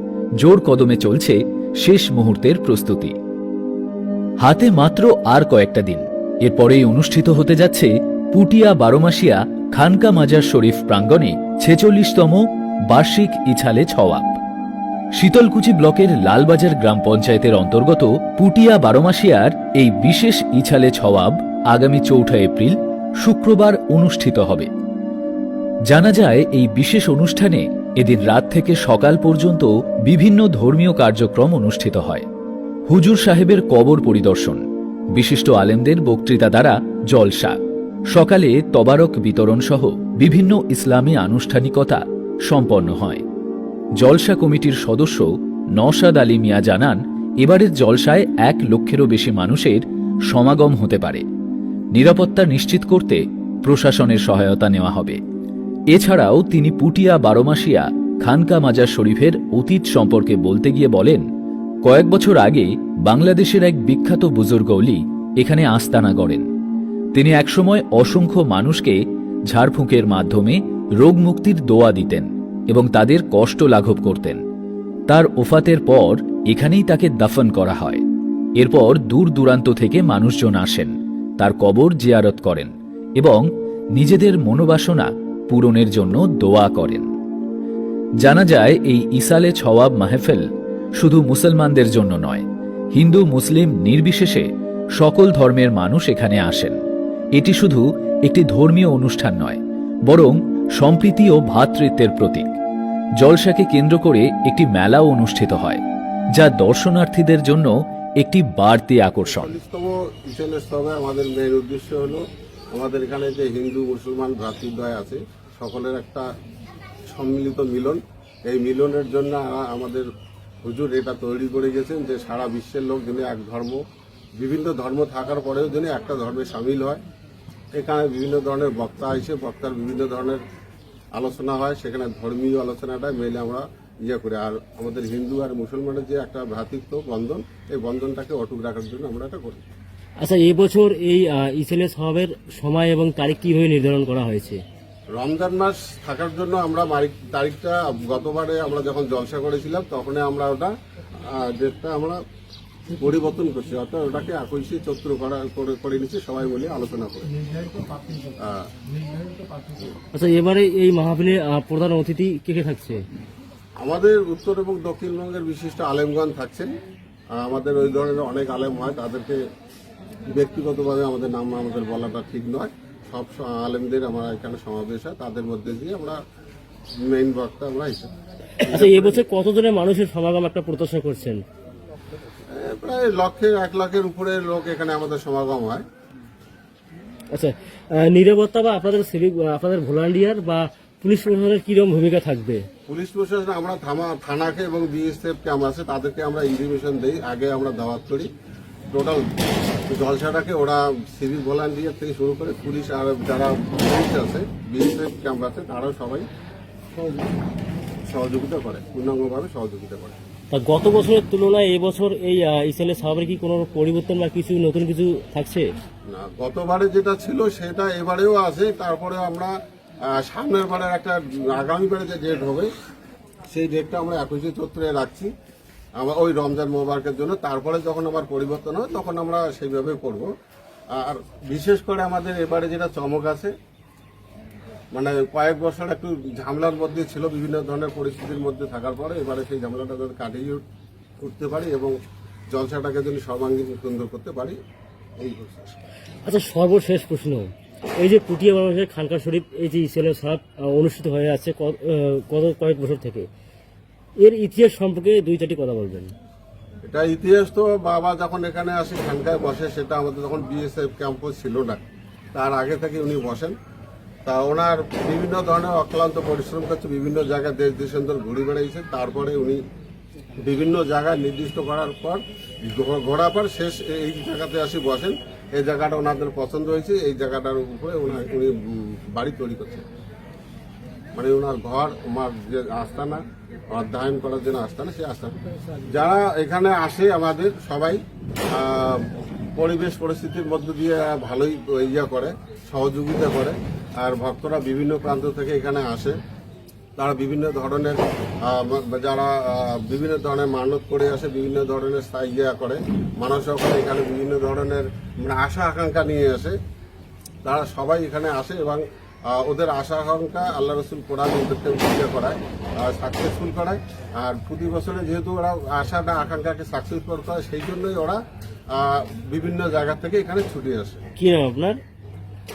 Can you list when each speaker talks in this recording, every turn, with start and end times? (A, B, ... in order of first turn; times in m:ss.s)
0:00.4-0:03.1 A
0:04.4-0:14.4 A
0:15.2-0:24.7 A
0:25.9-0:32.2 A
0:32.9-0:34.6 A
0:35.2-0:37.6 A
0:38.1-0:43.2 A
0:44.0-0:51.2 A
0:51.9-0:55.2 A
0:55.9-1:01.3 A
1:01.8-1:06.5 A
1:07.1-1:14.4 A
1:15.1-1:18.0 A
1:18.6-1:23.4 A
1:24.0-1:27.1 A
1:28.2-1:30.5 A
1:31.0-1:36.8 A
1:37.4-1:42.5 A
1:43.2-1:45.8 A
1:46.4-1:49.5 A
1:49.2-1:52.2 B
1:52.7-1:56.3 B
1:57.1-2:00.1 B
2:00.6-2:03.8 B
2:04.4-2:07.0 B
2:07.7-2:10.4 B
2:11.2-2:19.6 B
2:20.2-2:24.6 C
2:25.2-2:32.2 B
2:33.0-2:37.3 B
2:38.4-2:38.7 B
2:40.1-2:43.0 C
2:43.8-2:46.7 B
2:47.4-2:49.4 B
2:50.3-2:56.2 B
2:57.0-2:58.1 B
2:58.6-3:01.4 C
2:58.7-2:59.2 B
3:02.5-3:05.8 B
3:07.3-3:12.6 C
3:12.9-3:18.3 B
3:18.9-3:19.3 B
3:19.9-3:26.3 B
3:27.0-3:27.2 C
3:28.1-3:30.2 B
3:30.5-3:35.7 C
3:36.1-3:39.5 B
3:40.1-3:42.7 B
3:43.5-3:45.3 B
3:46.0-3:50.3 B
3:50.9-3:53.5 B
3:54.9-4:00.6 B
4:01.2-4:02.0 B
4:02.5-4:04.6 B
4:05.2-4:05.8 B
4:06.2-4:13.3 C
4:14.2-4:16.1 C
4:16.9-4:21.8 B
4:22.3-4:23.6 B
4:24.3-4:29.6 B
4:30.4-4:39.9 B
4:41.2-4:48.0 B
4:48.5-4:56.2 B
4:57.0-5:06.6 B
5:07.4-5:18.2 B
5:18.8-5:21.0 B
5:21.2-5:21.8 C